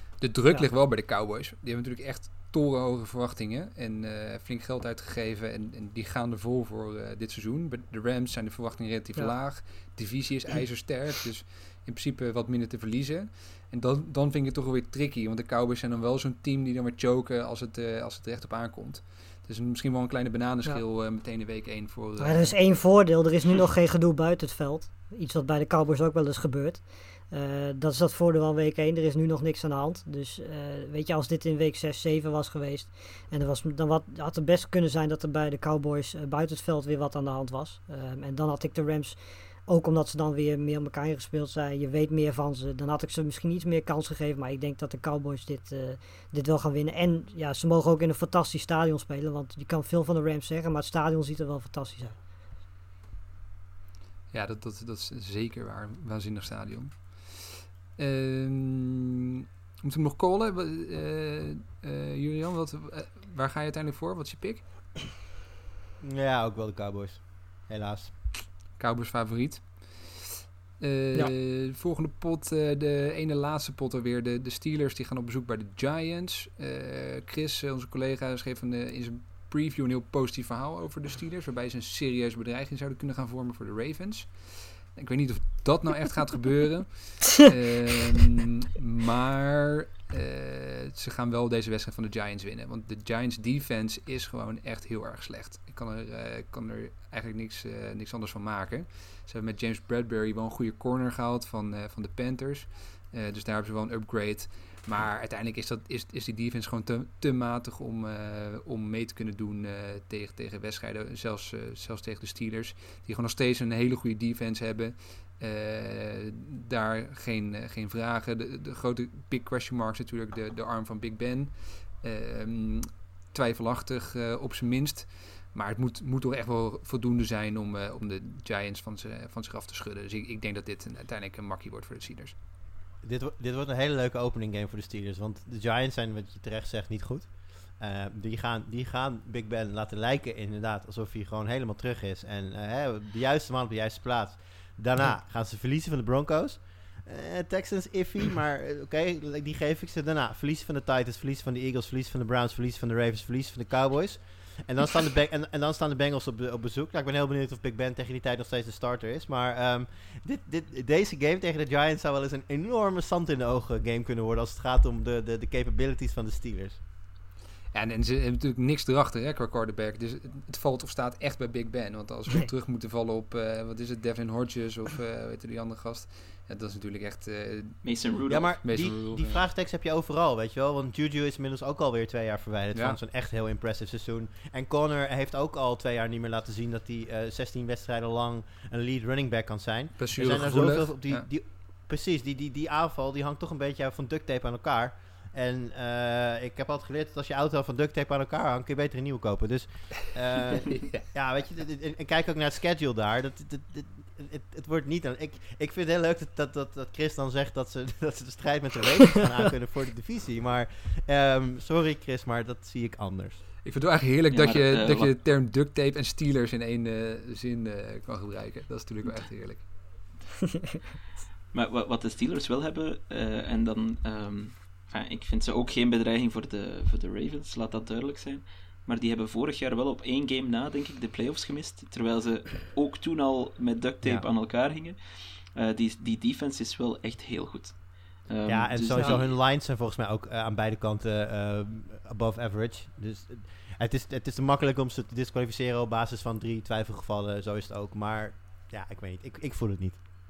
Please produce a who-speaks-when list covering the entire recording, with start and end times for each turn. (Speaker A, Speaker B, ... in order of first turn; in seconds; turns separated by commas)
Speaker A: 0.2-22.7, Speaker B: 22.2-52.2, Speaker A: 54.3-65.0, Speaker C: 66.0-68.1, Speaker A: 68.8-132.3, Speaker C: 133.0-166.8, Speaker A: 167.7-177.9, Speaker D: 177.8-178.6, Speaker C: 178.3-213.4, Speaker A: 178.6-179.4, Speaker A: 190.0-191.3, Speaker A: 200.7-201.0, Speaker A: 213.6-219.7, Speaker D: 214.3-215.1, Speaker D: 221.5-239.4, Speaker C: 238.4-250.0